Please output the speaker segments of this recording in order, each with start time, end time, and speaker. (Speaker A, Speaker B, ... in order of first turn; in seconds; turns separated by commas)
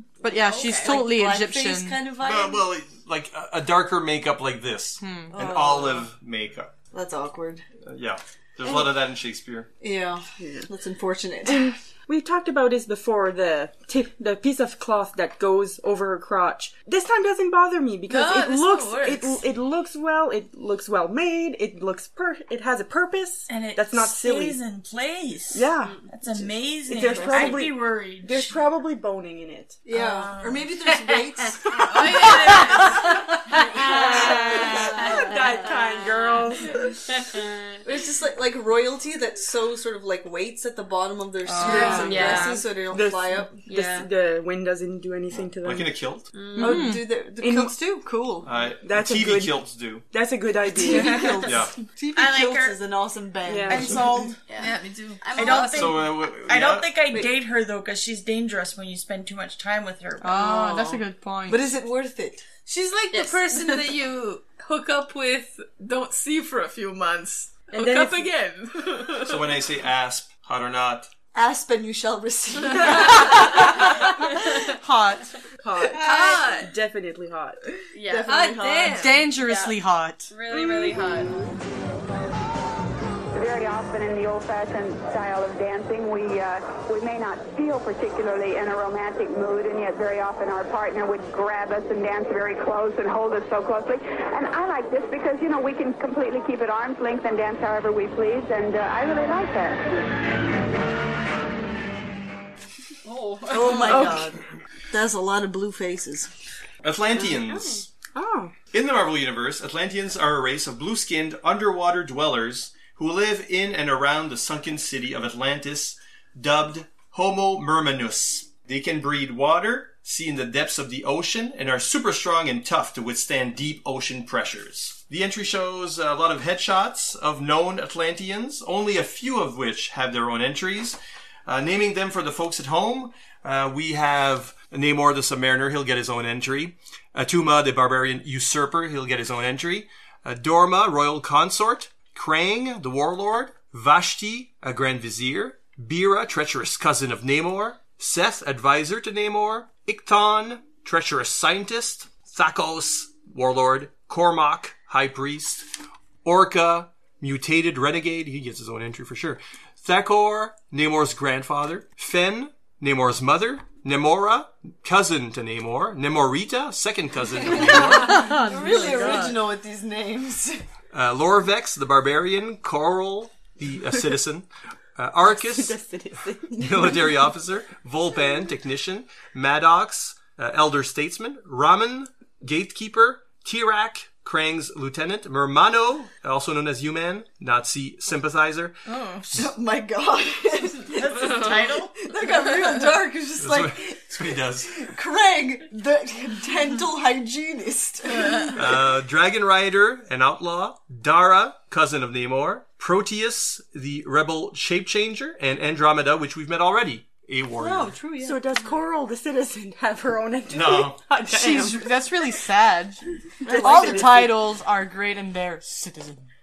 Speaker A: 0.2-2.0, Speaker B: 0.5-0.8, Speaker C: 0.7-2.7, Speaker D: 2.2-6.7, Speaker A: 5.0-5.3, Speaker C: 5.3-6.1, Speaker C: 6.9-7.6, Speaker D: 7.8-9.7, Speaker C: 9.8-11.7, Speaker E: 10.4-10.7, Speaker E: 11.4-24.6, Speaker F: 18.1-19.4, Speaker G: 23.5-28.6, Speaker E: 25.5-26.0, Speaker B: 25.8-26.1, Speaker E: 26.9-29.8, Speaker C: 27.1-27.7, Speaker C: 29.9-32.9, Speaker G: 29.9-30.6, Speaker B: 31.1-32.9, Speaker F: 31.7-33.0, Speaker E: 33.8-36.8, Speaker C: 33.8-35.0, Speaker B: 33.8-34.5, Speaker B: 35.1-35.6, Speaker C: 37.8-43.5, Speaker A: 41.5-42.3, Speaker E: 41.6-46.0, Speaker B: 41.9-42.8, Speaker B: 43.6-44.1, Speaker D: 45.3-46.3, Speaker B: 46.3-46.9, Speaker A: 46.6-47.0, Speaker C: 46.6-48.5, Speaker E: 47.3-47.8, Speaker D: 48.4-50.0, Speaker E: 48.7-51.5, Speaker C: 50.7-54.1, Speaker D: 51.5-51.7, Speaker G: 52.1-52.8, Speaker E: 53.5-54.3, Speaker G: 53.7-54.4, Speaker B: 54.5-56.1, Speaker F: 54.6-55.6, Speaker G: 55.4-61.0, Speaker D: 55.6-57.1, Speaker A: 60.2-61.7, Speaker C: 60.4-60.7, Speaker C: 61.5-62.4, Speaker F: 62.7-69.6, Speaker B: 63.1-64.0, Speaker E: 67.7-68.3, Speaker D: 69.2-71.1, Speaker C: 71.3-74.1, Speaker A: 74.7-75.3, Speaker C: 75.6-76.1, Speaker F: 76.0-76.7, Speaker E: 76.0-77.6, Speaker B: 77.9-78.5, Speaker C: 78.0-79.2, Speaker F: 78.2-79.2, Speaker A: 79.0-80.3, Speaker B: 79.3-79.8, Speaker B: 80.3-81.3, Speaker H: 83.3-99.8, Speaker B: 103.0-104.1, Speaker C: 103.5-106.3, Speaker E: 103.7-104.3, Speaker D: 106.8-107.9, Speaker E: 107.2-108.5, Speaker D: 108.7-155.7, Speaker D: 156.2-168.4, Speaker C: 167.5-170.6, Speaker A: 167.9-169.4, Speaker D: 170.9-175.8, Speaker E: 175.3-177.2, Speaker D: 176.6-188.8, Speaker F: 188.9-189.3, Speaker C: 189.3-198.8, Speaker G: 190.9-192.0, Speaker D: 193.4-194.7, Speaker D: 198.6-207.9, Speaker C: 207.6-208.4, Speaker E: 208.2-211.9, Speaker D: 210.5-211.0, Speaker A: 211.2-213.0, Speaker E: 213.4-214.2, Speaker C: 213.4-214.3, Speaker A: 213.5-216.3